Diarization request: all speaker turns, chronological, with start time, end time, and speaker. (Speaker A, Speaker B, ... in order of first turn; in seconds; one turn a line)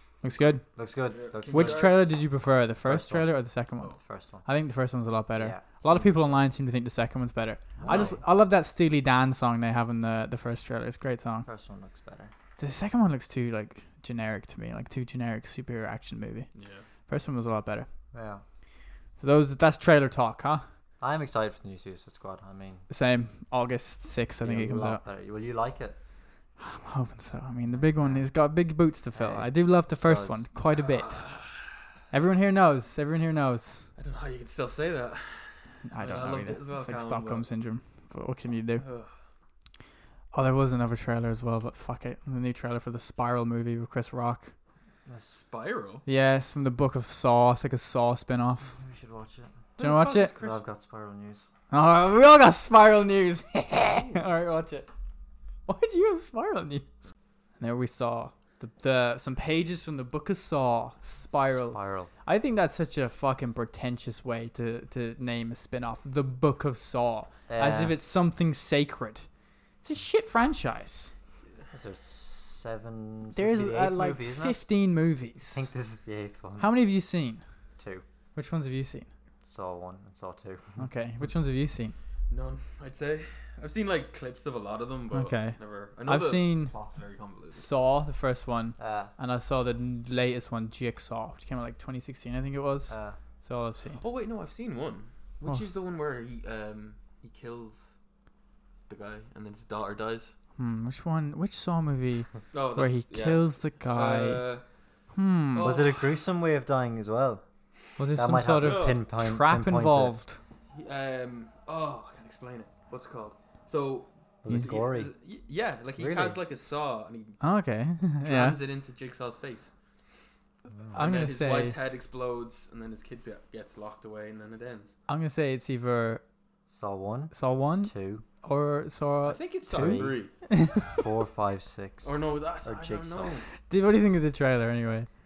Speaker A: 0.2-0.6
Speaker B: 0.8-1.9
Speaker C: 1.1-2.1
Speaker A: 1.5-3.9
Speaker B: 2.8-3.3
Speaker B: 4.0-4.5
Speaker A: 4.4-11.5
Speaker B: 5.4-6.4
Speaker B: 7.8-8.2
Speaker C: 7.8-8.2
Speaker B: 11.4-12.3
Speaker A: 12.6-16.5
Speaker C: 16.5-16.8
Speaker A: 17.1-17.9
Speaker B: 18.1-18.4
Speaker A: 19.2-20.6
Speaker B: 21.0-22.8
Speaker A: 22.9-25.0
Speaker B: 24.4-26.0
Speaker A: 26.6-31.2
Speaker B: 27.7-28.3
Speaker B: 29.1-30.4
Speaker C: 30.7-31.7
Speaker A: 32.1-33.9
Speaker C: 34.0-37.4
Speaker A: 35.9-38.8
Speaker C: 38.8-39.1
Speaker A: 40.3-44.5
Speaker B: 45.0-45.3
Speaker C: 45.3-46.0
Speaker A: 46.0-48.8
Speaker B: 48.8-49.6
Speaker C: 49.8-50.6
Speaker A: 49.8-50.3
Speaker B: 50.4-51.4
Speaker A: 51.7-54.9
Speaker C: 53.8-54.3
Speaker A: 55.7-56.9
Speaker A: 57.6-69.3
Speaker B: 61.3-62.1
Speaker B: 67.5-67.9
Speaker A: 69.8-71.1
Speaker B: 71.7-74.6
Speaker A: 73.3-75.7
Speaker B: 75.5-76.7
Speaker A: 76.6-77.4
Speaker B: 77.8-78.0
Speaker A: 78.3-79.1
Speaker B: 79.4-80.8
Speaker A: 80.8-81.9
Speaker C: 82.3-87.7
Speaker A: 85.1-86.7
Speaker A: 87.5-94.0
Speaker B: 88.8-89.1
Speaker B: 92.9-93.2
Speaker C: 94.0-97.8
Speaker C: 98.9-100.3
Speaker A: 100.6-104.4
Speaker C: 102.5-104.6
Speaker A: 105.1-105.7
Speaker C: 105.5-106.1
Speaker B: 105.6-107.4
Speaker A: 108.0-110.4
Speaker B: 108.1-110.2
Speaker C: 108.6-109.0
Speaker C: 110.7-117.4
Speaker B: 114.4-115.1
Speaker B: 116.0-116.4
Speaker A: 117.4-118.6
Speaker C: 118.2-119.7
Speaker B: 120.7-121.1
Speaker A: 120.9-121.8
Speaker C: 120.9-124.9
Speaker A: 125.1-126.2
Speaker B: 126.7-128.2
Speaker A: 127.3-131.0
Speaker C: 129.2-130.3
Speaker B: 129.7-130.2
Speaker B: 130.8-133.3
Speaker C: 132.0-133.5
Speaker A: 133.7-135.1